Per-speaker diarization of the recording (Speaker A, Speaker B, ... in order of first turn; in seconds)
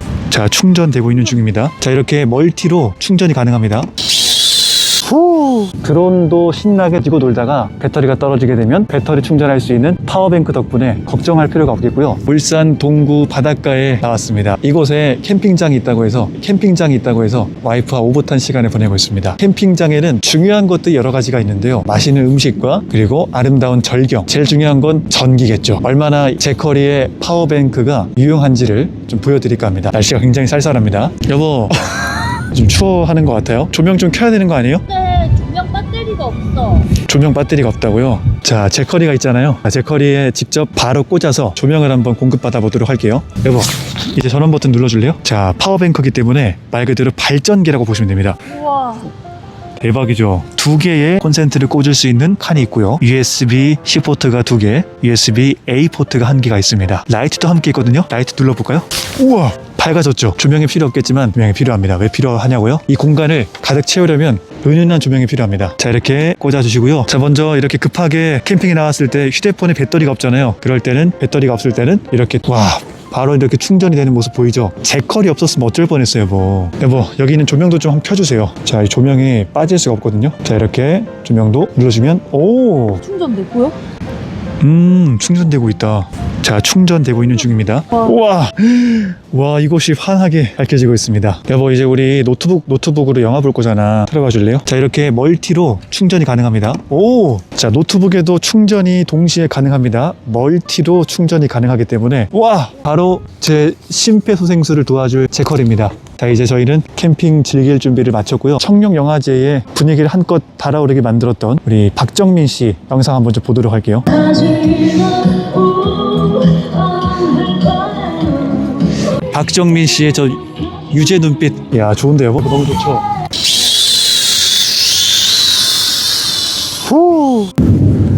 Speaker A: 0.3-3.9, 5.0-34.9, 36.9-48.6, 49.8-83.0, 84.6-114.3, 119.2-123.1, 126.8-127.5
Speaker B: 34.9-36.9, 48.6-49.1, 83.0-83.8, 114.2-118.8